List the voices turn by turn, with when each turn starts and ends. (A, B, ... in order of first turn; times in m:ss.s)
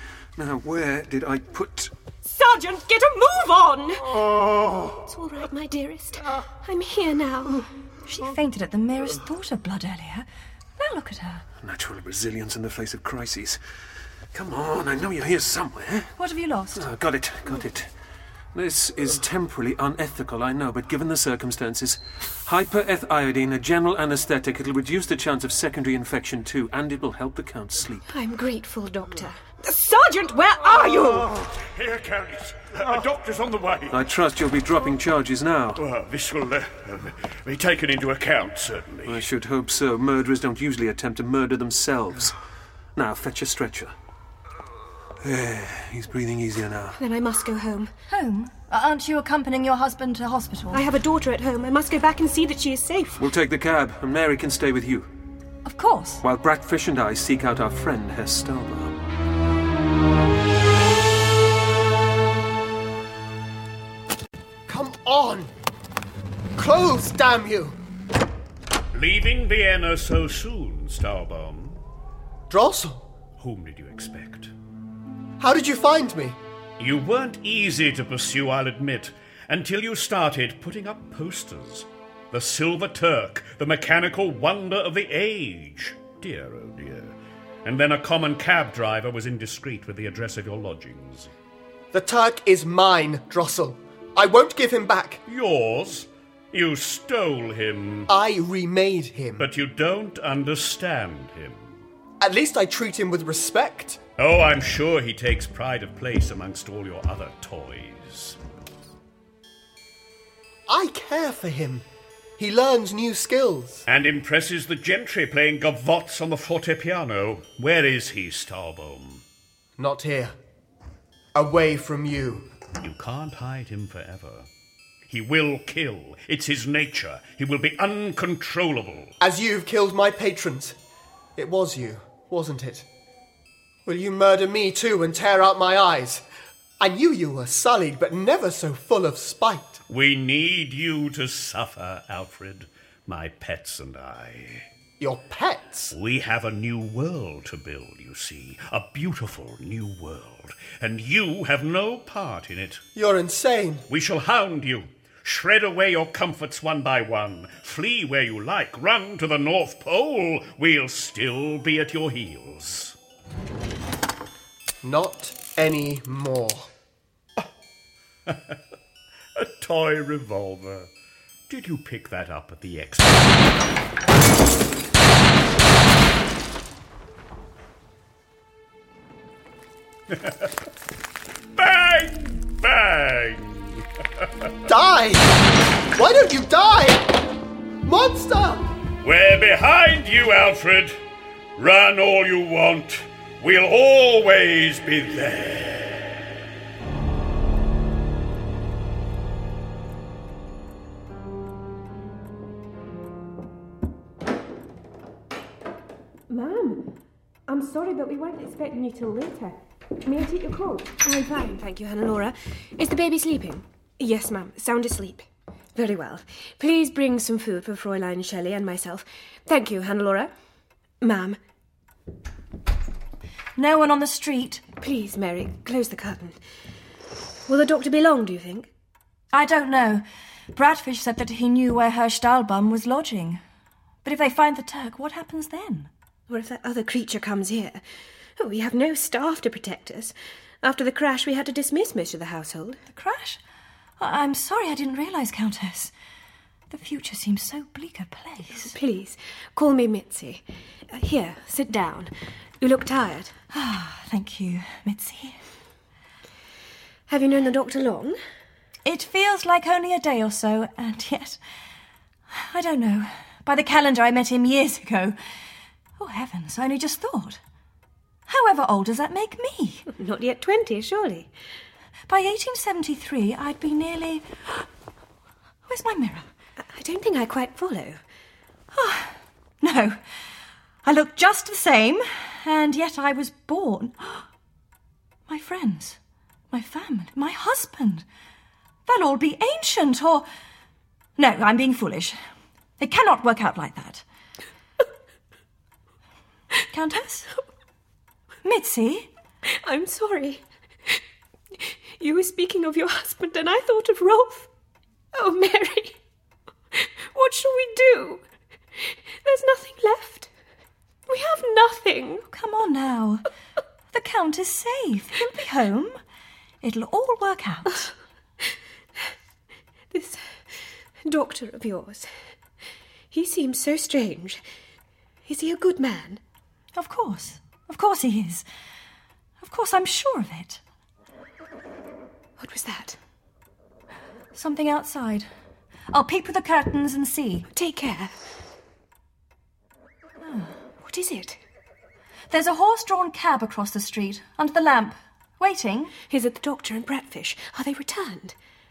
0:00.4-0:01.9 A
0:02.2-0:04.2 B
0:05.0-0:07.7 B
0:08.1-0:10.3 C
0:10.8-0:11.5 C
0:11.6-0:13.6 A
0:14.3-0:16.1 A
0:16.2-0:16.9 C
0:16.8-0:17.9 A
0:18.5-0:28.0 A
0:28.1-0:31.3 B
0:31.5-0:34.0 D
0:33.9-0:35.8 A
0:35.8-0:39.3 D
0:39.0-0:42.4 A
0:43.0-0:43.9 A
0:45.2-0:47.0 A
0:47.0-0:47.9 B
0:48.1-0:50.8 C
0:50.7-0:53.2 B
0:53.2-0:55.1 A
0:55.6-0:56.2 C
0:56.2-0:59.0 A
1:04.7-1:05.5 E
1:06.6-1:07.8 E
1:08.9-1:11.8 D
1:12.5-1:13.0 E
1:13.4-1:14.5 D
1:15.4-1:16.4 E
1:16.8-1:31.3 D
1:31.9-1:35.2 E
1:35.3-1:38.1 D
1:38.1-1:39.5 E
1:39.4-1:41.8 D
1:42.2-1:44.0 E
1:44.2-1:48.4 D
1:50.7-1:51.8 E
1:52.4-1:53.8 E
1:53.9-1:59.2 D
1:59.8-2:00.4 E
2:01.4-2:02.5 E
2:02.8-2:04.5 D
2:05.1-2:09.1 D
2:09.2-2:10.8 E
2:11.4-2:12.9 E
2:13.9-2:16.2 E
2:16.8-2:19.8 E
2:19.9-2:24.7 D
2:25.0-2:26.0 E
2:25.9-2:32.8 D
2:33.0-2:33.8 E
2:33.9-2:43.0 D
2:44.8-2:46.7 E
2:48.3-2:48.6 D
2:49.4-2:50.9 D
2:51.5-2:53.6 D
3:00.1-3:00.5 D
3:01.6-3:04.3 D
3:04.7-3:05.3 E
3:05.9-3:07.1 E
3:07.8-3:08.7 E
3:09.0-3:11.0 D
3:11.6-3:16.2 D
3:26.3-3:26.9 B
3:27.5-3:40.3 B
3:41.0-3:41.4 B
3:43.6-3:44.6 C
3:44.8-3:46.4 B
3:47.5-3:48.7 B
3:49.3-3:53.4 C
3:54.0-3:55.9 C
3:56.3-3:57.8 B
3:58.4-4:02.8 B
4:02.9-4:03.4 C
4:04.0-4:05.9 C
4:06.7-4:08.7 C
4:08.6-4:13.3 B
4:13.5-4:15.4 C
4:17.1-4:18.2 B
4:18.8-4:21.4 C
4:22.3-4:25.2 C
4:26.0-4:27.4 C
4:28.3-4:29.8 C
4:29.9-4:31.3 B
4:32.1-4:34.7 C
4:35.7-4:36.3 C
4:36.7-4:38.0 B
4:38.7-4:40.0 C
4:40.8-4:44.2 C
4:45.3-4:46.0 C
4:46.5-4:48.0 C
4:48.9-4:50.3 C
4:51.2-4:52.2 C
4:52.8-4:54.0 C
4:56.7-4:57.3 C
4:58.4-4:59.1 C
4:59.5-5:01.0 B
5:01.6-5:04.5 B
5:05.1-5:06.0 B
5:06.7-5:08.2 B
5:08.8-5:10.3 B
5:11.1-5:12.2 B
5:12.3-5:13.3 C
5:13.9-5:16.0 C
5:16.6-5:17.9 C
5:19.9-5:20.2 B
5:21.1-5:22.1 B
5:23.1-5:24.4 B
5:25.3-5:26.2 B
5:26.8-5:28.4 C
5:29.4-5:30.6 C
5:32.4-5:33.0 B
5:34.3-5:35.3 C
5:35.9-5:37.5 C
5:37.5-5:38.1 B
5:40.2-5:40.6 C
5:40.8-5:41.4 B
5:42.3-5:45.9 C
5:46.1-5:48.4 B